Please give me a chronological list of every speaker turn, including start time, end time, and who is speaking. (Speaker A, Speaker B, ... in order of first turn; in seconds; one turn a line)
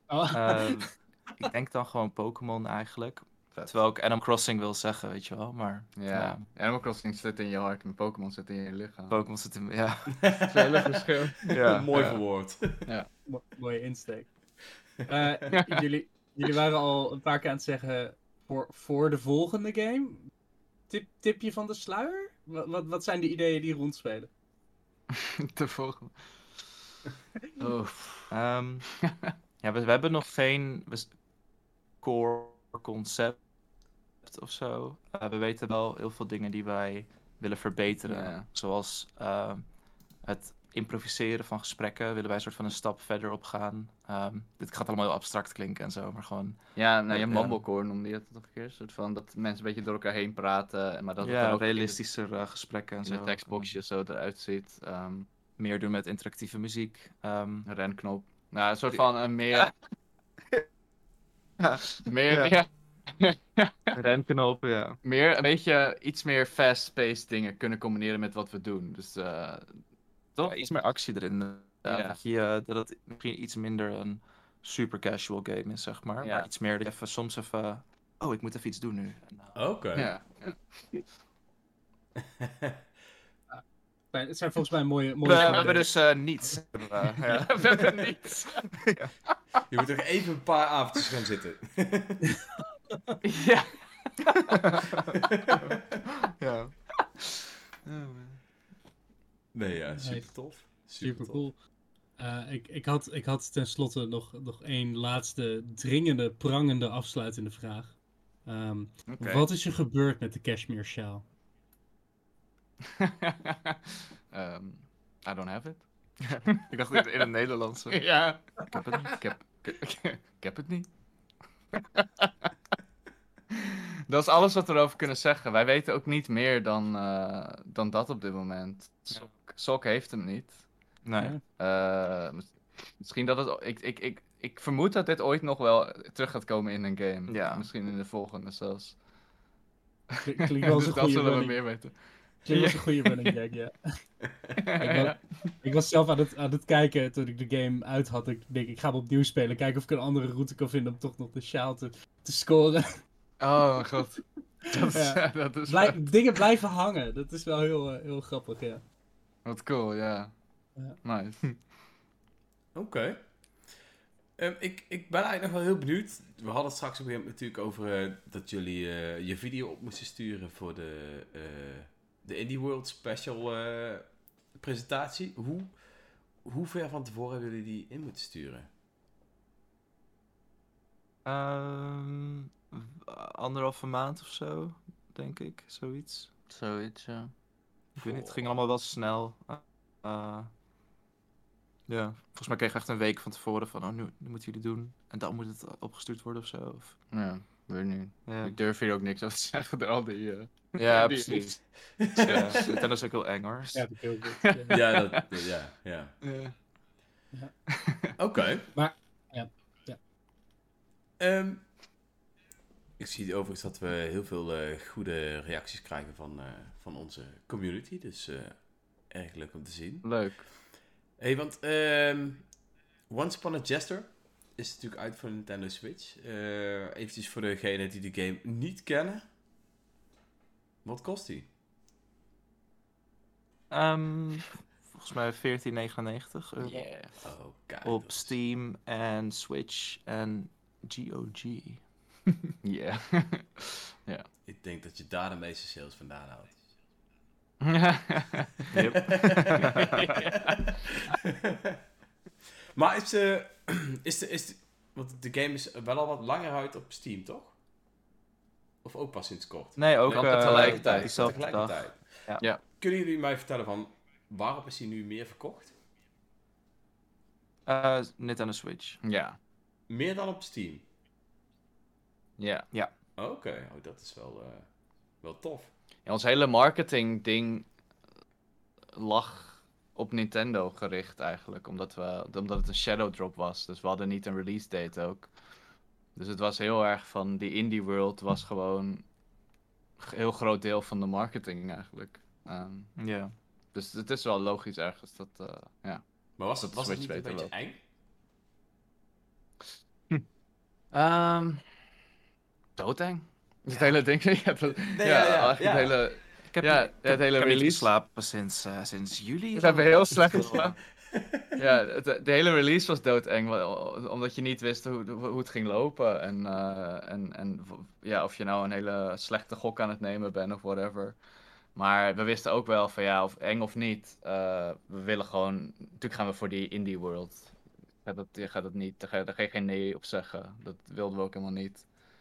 Speaker A: 0.1-0.9
Speaker B: 0.3-6.4
Speaker C: 6.0-9.2
Speaker B: 9.1-10.4
Speaker D: 10.2-12.9
Speaker C: 10.5-11.5
Speaker B: 11.4-12.2
Speaker A: 13.3-20.3
Speaker C: 15.5-15.8
Speaker A: 20.9-24.3
Speaker C: 25.1-26.1
Speaker C: 27.6-28.3
Speaker B: 28.3-28.9
Speaker C: 29.0-29.3
Speaker B: 29.6-31.1
Speaker B: 32.0-33.4
Speaker B: 34.2-39.6
Speaker C: 38.1-38.5
Speaker B: 40.2-47.6
Speaker C: 46.8-52.0
Speaker B: 51.2-53.8
Speaker C: 53.0-55.3
Speaker B: 55.6-57.7
Speaker C: 57.7-59.8
Speaker B: 61.6-62.5
Speaker C: 62.0-64.0
Speaker B: 63.9-65.0
Speaker C: 65.0-69.8
Speaker B: 70.4-79.6
Speaker C: 71.8-72.2
Speaker C: 76.2-76.5
Speaker D: 79.5-80.1
Speaker C: 80.0-80.6
Speaker D: 82.4-82.8
Speaker A: 83.5-86.5
Speaker B: 85.2-88.1
Speaker C: 87.2-88.7
Speaker B: 88.8-89.1
Speaker D: 89.7-92.3
Speaker C: 93.2-94.4
Speaker B: 94.5-96.8
Speaker B: 97.9-98.4
Speaker D: 99.5-101.5
Speaker A: 100.0-101.6
Speaker A: 102.2-111.2
Speaker C: 109.1-109.4
Speaker C: 113.0-115.9
Speaker B: 116.2-118.1
Speaker C: 116.4-117.0
Speaker C: 117.9-120.9
Speaker B: 118.7-119.2
Speaker C: 122.0-122.3
Speaker C: 123.5-130.7
Speaker B: 131.1-131.4
Speaker C: 131.6-139.0
Speaker B: 137.3-137.7
Speaker C: 140.1-142.0
Speaker A: 140.2-141.6
Speaker A: 142.5-144.2
Speaker C: 142.5-143.3
Speaker C: 144.6-145.3
Speaker A: 144.8-153.0
Speaker C: 153.4-156.4
Speaker A: 154.7-158.8
Speaker C: 159.4-161.4
Speaker D: 162.7-163.7
Speaker D: 164.4-178.7
Speaker B: 181.2-186.3
Speaker C: 186.5-187.3
Speaker B: 188.0-190.5
Speaker B: 191.9-197.0
Speaker C: 197.1-202.8
Speaker B: 198.3-198.6
Speaker B: 200.8-203.9
Speaker D: 202.1-202.4
Speaker A: 203.7-204.8
Speaker C: 204.4-204.7
Speaker D: 204.7-206.1
Speaker B: 206.2-206.5
Speaker D: 208.2-208.7
Speaker A: 208.7-210.0
Speaker D: 211.2-211.7
Speaker D: 213.0-220.4
Speaker C: 220.0-220.5
Speaker D: 221.2-229.3
Speaker D: 230.8-231.5
Speaker B: 233.7-236.9
Speaker C: 236.6-237.1
Speaker D: 237.2-238.3
Speaker B: 237.8-242.3
Speaker C: 242.6-244.3
Speaker D: 244.4-246.6
Speaker C: 247.6-248.7
Speaker B: 248.7-249.8
Speaker D: 249.2-250.9
Speaker C: 249.6-250.6
Speaker D: 252.8-257.6
Speaker D: 258.8-265.8
Speaker B: 259.8-262.4
Speaker C: 260.1-261.4
Speaker B: 267.7-269.0
Speaker C: 269.0-269.4
Speaker D: 269.9-270.9
Speaker C: 272.4-272.7
Speaker D: 273.2-275.7
Speaker C: 276.1-277.7
Speaker C: 278.9-285.3
Speaker C: 286.1-289.1
Speaker C: 290.0-293.0
Speaker B: 293.0-293.3
Speaker C: 293.7-296.0
Speaker D: 296.4-297.8
Speaker C: 296.6-297.5
Speaker C: 300.9-301.6
Speaker C: 302.8-307.9
Speaker D: 304.9-306.0
Speaker B: 306.4-310.8
Speaker C: 309.6-310.8
Speaker D: 311.1-311.4
Speaker C: 311.6-321.2
Speaker C: 321.8-331.9